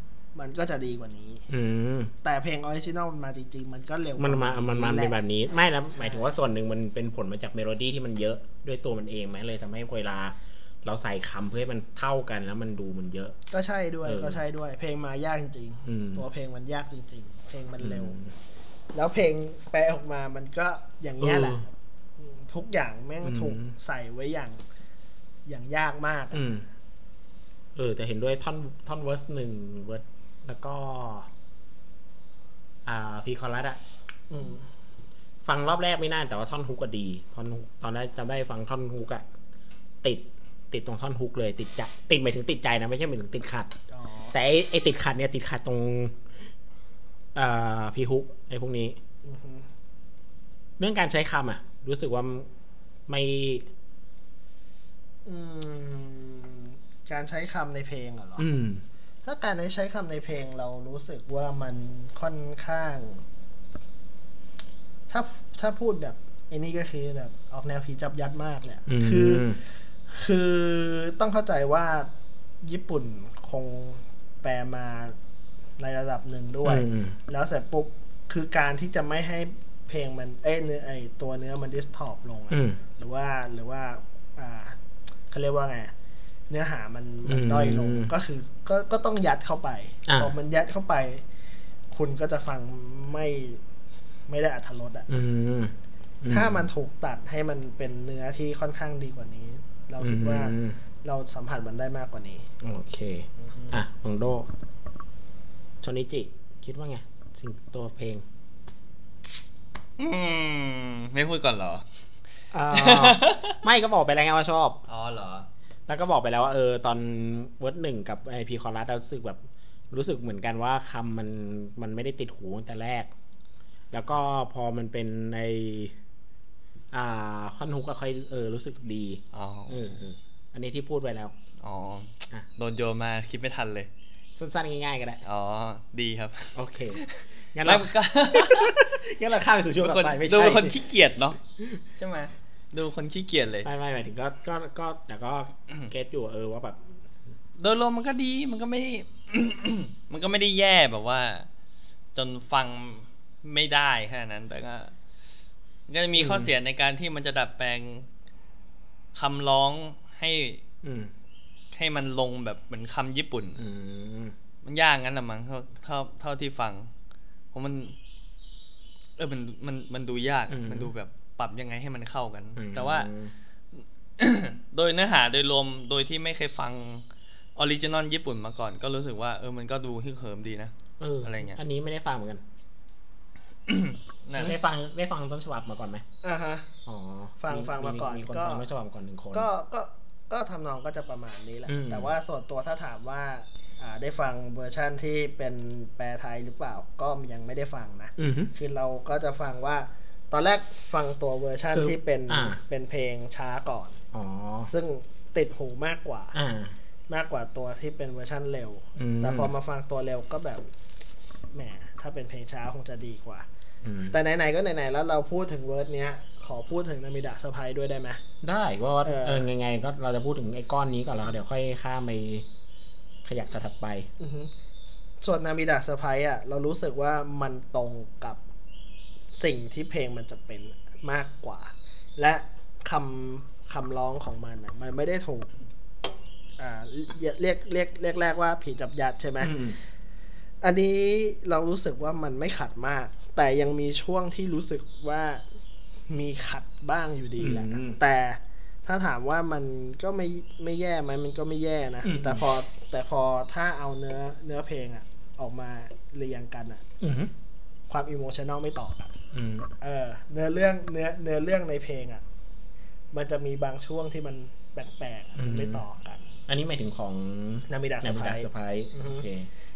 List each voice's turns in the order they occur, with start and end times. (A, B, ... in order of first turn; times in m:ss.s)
0:00.3-0:01.5 A
0:01.5-0:02.1 B
0:02.2-0:05.2 A
0:04.2-0:13.4 B
0:05.9-0:06.3 A
0:13.5-0:18.2 A
0:14.0-0:14.4 B
0:15.8-0:16.2 B
0:17.8-0:18.3 B
0:18.9-0:24.6 A
0:21.2-0:21.6 B
0:23.2-0:23.7 B
0:25.4-0:26.6 A
0:26.3-0:26.6 B
0:27.8-0:31.3 B
0:32.8-0:33.8 B
0:34.3-0:34.6 A
0:35.4-0:39.2 B
0:40.0-0:43.7 B
0:43.9-0:44.3 A
0:44.3-0:46.2 B
0:47.3-0:49.0 B
0:49.2-0:49.7 A
0:50.8-0:52.5 B
0:53.1-0:53.7 B
0:55.2-0:58.4 A
0:58.4-0:58.8 B
0:59.2-1:03.2 A
1:05.1-1:09.5 A
1:08.9-1:09.6 B
1:10.1-1:12.1 A
1:12.6-1:15.2 A
1:15.8-1:24.8 A
1:16.6-1:17.2 B
1:22.5-1:22.8 B
1:25.3-1:25.9 A
1:26.5-1:31.2 A
1:27.2-1:28.1 B
1:30.0-1:30.3 B
1:31.9-1:33.6 A
1:34.3-1:35.1 A
1:35.1-1:36.7 B
1:36.3-1:42.5 A
1:40.0-1:40.8 B
1:42.6-1:44.5 B
1:43.4-1:43.7 A
1:45.8-1:48.2 B
1:50.0-1:51.8 C
1:52.5-1:54.8 B
1:52.7-1:53.6 C
1:54.9-1:55.5 C
1:55.9-2:03.1 B
2:03.9-2:06.0 B
2:06.9-2:11.3 B
2:09.3-2:09.9 C
2:11.6-2:13.9 C
2:14.4-2:15.2 B
2:15.2-2:18.8 C
2:16.5-2:17.0 B
2:17.5-2:20.8 B
2:19.8-2:21.4 C
2:21.9-2:23.7 C
2:23.6-2:26.8 B
2:27.6-2:31.5 C
2:32.1-2:34.9 C
2:35.9-2:38.1 C
2:36.2-2:36.5 B
2:39.1-2:40.6 C
2:40.8-2:41.1 B
2:41.7-2:43.6 C
2:43.6-2:44.3 B
2:44.6-2:46.9 C
2:47.5-2:47.9 C
2:49.2-2:53.1 C
2:50.5-2:50.9 B
2:52.6-2:53.3 B
2:54.2-3:00.7 C
3:01.0-3:02.4 B
3:01.2-3:01.6 C
3:03.7-3:04.5 C
3:04.4-3:06.0 B
3:06.2-3:06.7 A
3:06.8-3:09.5 B
3:07.4-3:08.6 A
3:09.3-3:24.0 A
3:11.7-3:12.1 B
3:18.2-3:18.5 B
3:21.7-3:22.6 B
3:24.1-3:24.7 B
3:24.6-3:26.4 A
3:26.3-3:26.7 B
3:27.1-3:30.6 A
3:29.0-3:29.5 B
3:31.5-3:33.4 A
3:33.8-3:34.2 B
3:34.1-3:38.2 A
3:38.4-3:42.5 B
3:39.0-3:39.4 A
3:43.2-3:44.1 B
3:44.2-3:44.5 A
3:45.2-3:48.4 A
3:49.3-3:55.5 A
3:56.6-3:59.6 A
3:59.4-3:59.8 B
4:00.6-4:05.4 A
4:06.1-4:16.8 A
4:07.4-4:08.0 B
4:12.0-4:12.4 B
4:17.0-4:17.3 B
4:17.9-4:19.2 A
4:19.3-4:19.7 B
4:19.8-4:22.2 A
4:23.1-4:26.3 A
4:25.4-4:25.8 B
4:26.5-4:29.5 B
4:27.7-4:29.2 A